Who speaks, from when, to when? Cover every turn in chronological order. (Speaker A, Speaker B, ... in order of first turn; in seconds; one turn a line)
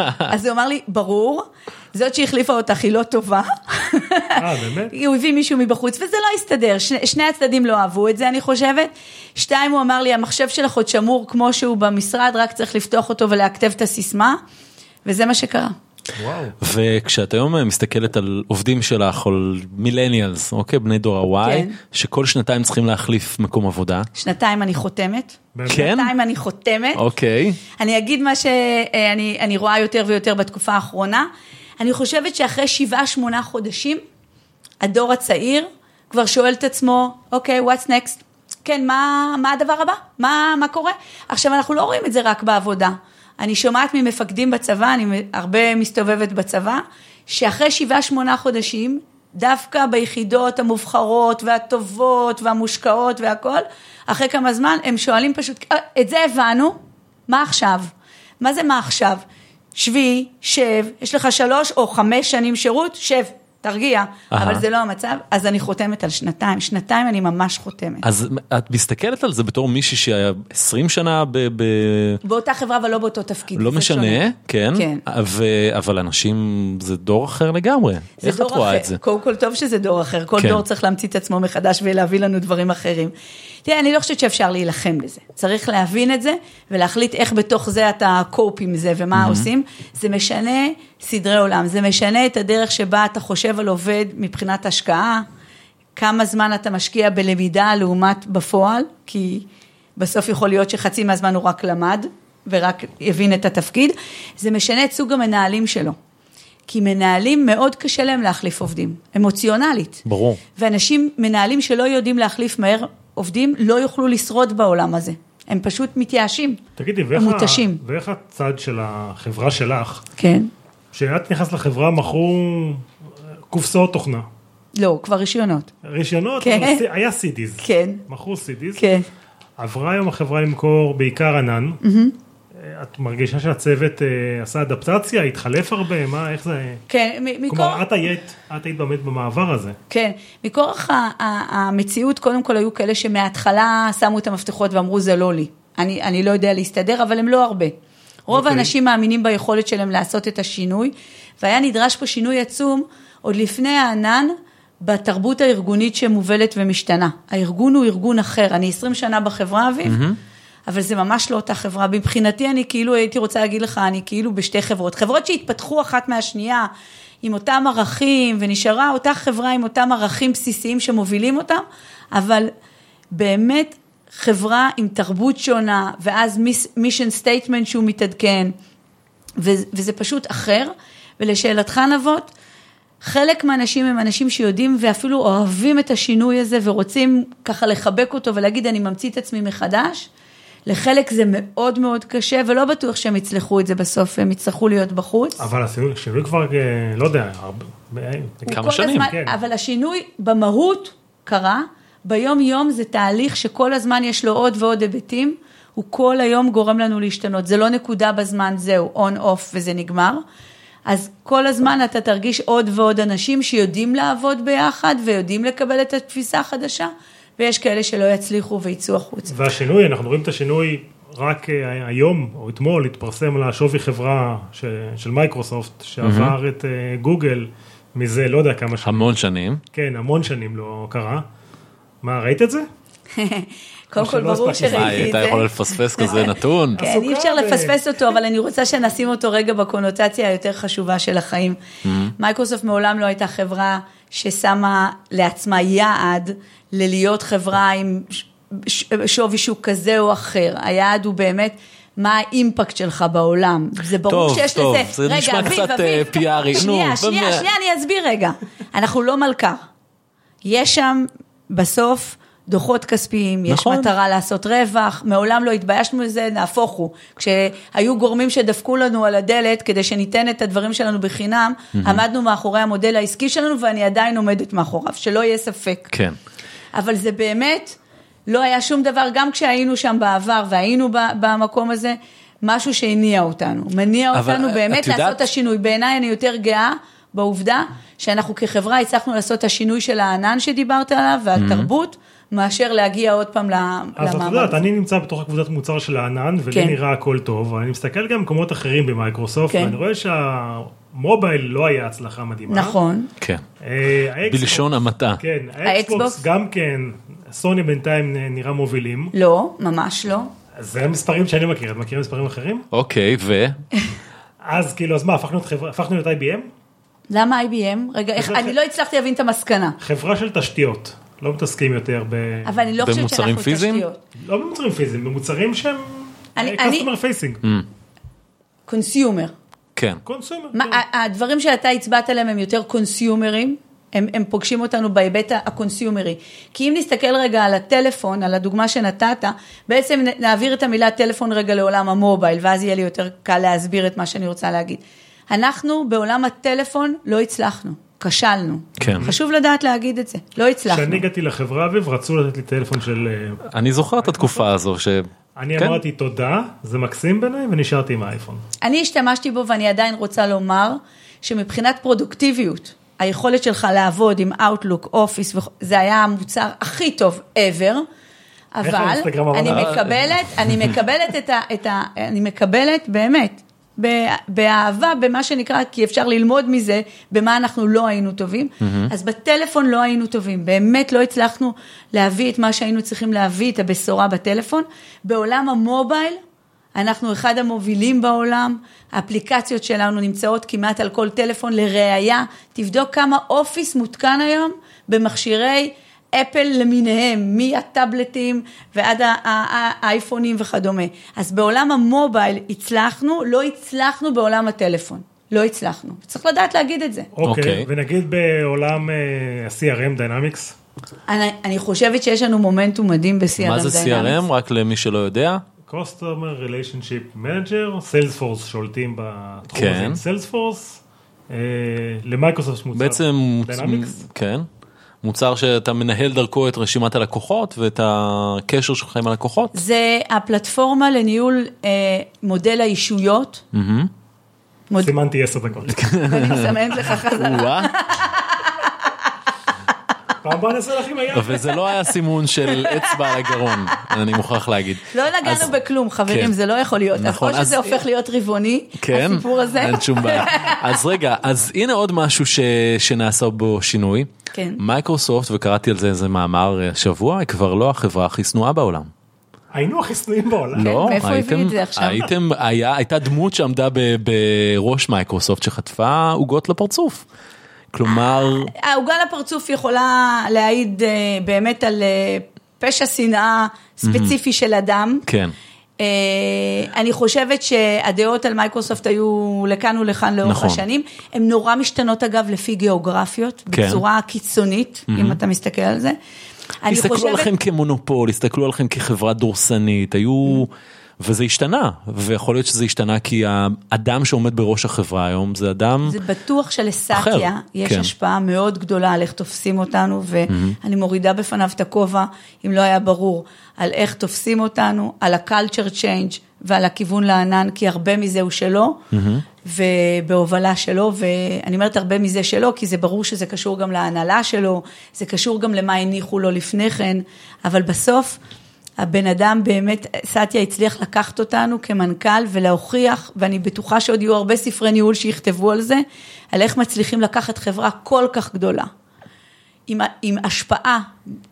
Speaker A: 0.2-14.4
Speaker B: 4.3-4.9
Speaker A: 15.0-15.7
Speaker B: 16.1-16.5
Speaker C: 16.6-24.1
Speaker A: 21.4-21.8
Speaker A: 24.1-27.0
Speaker B: 25.5-25.9
Speaker C: 25.7-26.1
Speaker C: 26.9-27.6
Speaker A: 27.8-31.3
Speaker A: 31.8-34.0
Speaker A: 34.8-56.8
Speaker A: 57.3-59.2
Speaker A: 59.7-68.0
Speaker C: 64.3-64.6
Speaker C: 68.0-72.2
Speaker A: 72.2-75.0
Speaker C: 73.5-79.0
Speaker A: 78.2-83.1
Speaker C: 80.4-80.6
Speaker A: 83.6-95.2
Speaker C: 89.1-89.5
Speaker A: 96.0-106.0
Speaker A: 106.7-110.0
Speaker C: 110.0-110.4
Speaker A: 110.5-116.6
Speaker B: 116.8-120.0
Speaker A: 117.1-117.8
Speaker A: 120.2-120.5
Speaker B: 120.9-122.8
Speaker B: 123.5-124.2
Speaker A: 124.8-125.7
Speaker B: 125.8-128.9
Speaker A: 126.4-126.8
Speaker A: 127.6-128.0
Speaker A: 128.8-129.1
Speaker B: 129.6-131.8
Speaker A: 131.8-132.1
Speaker B: 132.6-136.8
Speaker A: 136.9-137.8
Speaker B: 137.5-139.8
Speaker A: 139.9-147.7
Speaker A: 148.3-160.0
Speaker B: 148.3-148.7
Speaker C: 159.8-160.2
Speaker A: 160.7-166.7
Speaker A: 167.2-172.5
Speaker A: 173.1-178.5
Speaker A: 179.4-182.3
Speaker A: 183.0-190.1
Speaker A: 190.7-195.4
Speaker B: 195.4-199.3
Speaker C: 198.5-199.1
Speaker A: 198.5-210.2
Speaker A: 210.8-219.3
Speaker B: 219.3-229.1
Speaker C: 226.0-226.3
Speaker C: 228.8-229.6
Speaker B: 229.7-231.2
Speaker B: 232.0-232.7
Speaker A: 233.2-241.6
Speaker B: 234.0-235.1
Speaker C: 234.6-236.8
Speaker B: 236.8-238.2
Speaker C: 241.8-242.1
Speaker A: 242.2-259.6
Speaker C: 254.1-257.5
Speaker A: 260.4-275.9
Speaker C: 263.5-263.9
Speaker C: 271.8-272.0
Speaker C: 275.9-276.2
Speaker A: 276.7-294.6
Speaker C: 284.1-285.2
Speaker C: 291.4-291.7
Speaker B: 294.0-302.8
Speaker A: 299.5-299.7
Speaker A: 302.5-303.1
Speaker C: 303.2-303.4
Speaker B: 303.6-309.1
Speaker C: 304.3-305.2
Speaker A: 305.6-306.2
Speaker A: 309.1-310.3
Speaker B: 310.6-312.6
Speaker C: 312.7-313.6
Speaker B: 314.4-316.5
Speaker A: 317.1-319.8
Speaker B: 318.2-318.5
Speaker B: 319.8-322.5
Speaker A: 322.4-324.0
Speaker C: 322.8-323.8
Speaker B: 324.2-327.4
Speaker A: 326.4-326.9
Speaker A: 328.7-329.3
Speaker C: 329.8-330.0
Speaker B: 330.1-330.8
Speaker A: 330.5-351.0
Speaker C: 348.8-349.1
Speaker B: 348.9-349.2
Speaker B: 350.7-353.4
Speaker C: 353.4-355.8
Speaker B: 354.0-354.4
Speaker B: 355.4-358.4
Speaker A: 358.6-367.9
Speaker A: 368.5-386.2
Speaker B: 368.6-370.6
Speaker C: 369.4-369.8
Speaker C: 378.6-378.9
Speaker A: 386.7-407.1
Speaker B: 407.1-410.5
Speaker C: 407.2-407.7
Speaker A: 411.1-414.2
Speaker C: 413.4-415.4
Speaker B: 415.7-424.0
Speaker C: 419.5-420.0
Speaker C: 422.7-424.5
Speaker C: 425.0-429.6
Speaker A: 429.5-433.4
Speaker C: 433.5-433.9
Speaker B: 434.8-435.8
Speaker C: 435.7-437.7
Speaker A: 436.0-439.1
Speaker B: 440.2-441.7
Speaker C: 441.1-445.5
Speaker A: 442.4-443.9
Speaker A: 444.9-450.7
Speaker C: 446.1-446.3
Speaker C: 446.9-447.8
Speaker C: 448.8-458.9
Speaker A: 454.3-454.6
Speaker B: 459.5-461.0
Speaker C: 460.5-467.0
Speaker A: 460.6-462.1
Speaker C: 467.7-468.5
Speaker A: 468.5-475.0
Speaker C: 473.8-474.1
Speaker C: 475.1-475.3
Speaker A: 475.8-485.9
Speaker C: 480.2-480.6
Speaker C: 483.5-483.8
Speaker C: 484.9-485.2
Speaker A: 486.6-487.3
Speaker C: 486.7-496.0
Speaker A: 495.8-508.8
Speaker C: 496.9-497.9
Speaker C: 500.3-500.6
Speaker C: 508.9-509.2
Speaker A: 509.4-518.2
Speaker A: 518.8-528.7
Speaker A: 529.7-530.9